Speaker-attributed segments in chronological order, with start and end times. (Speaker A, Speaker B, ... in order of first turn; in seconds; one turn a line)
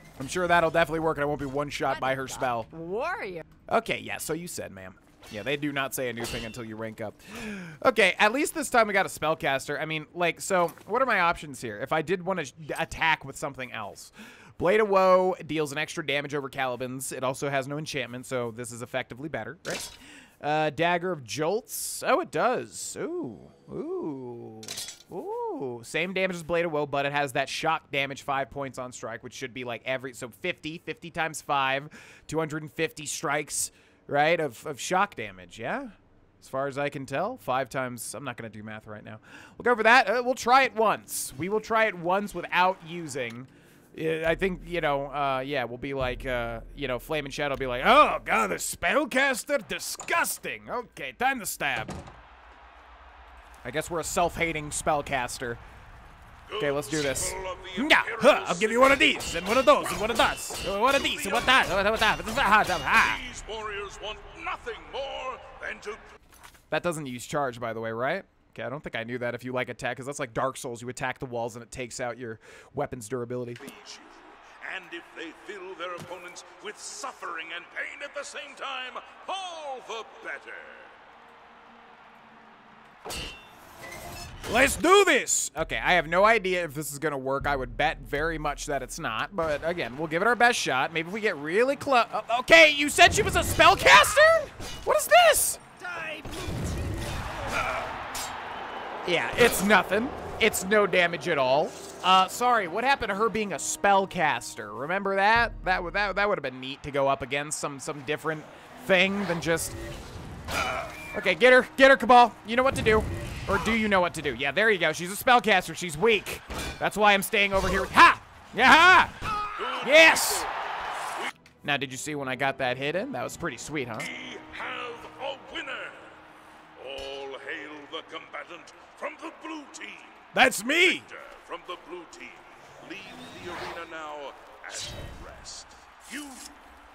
Speaker A: 0.2-2.7
Speaker B: 1.9-3.4
Speaker A: 3.7-51.9
Speaker A: 53.6-55.6
Speaker C: 56.5-59.2
Speaker A: 56.6-63.2
Speaker C: 60.8-61.9
Speaker C: 63.0-66.1
Speaker A: 66.7-73.6
Speaker C: 73.6-80.9
Speaker A: 84.5-95.6
Speaker B: 95.8-97.1
Speaker A: 99.0-109.8
Speaker A: 111.1-119.2
Speaker C: 119.6-120.5
Speaker A: 119.8-120.5
Speaker A: 121.6-124.1
Speaker C: 124.0-126.2
Speaker C: 126.8-130.3
Speaker A: 130.3-131.1
Speaker C: 130.8-136.5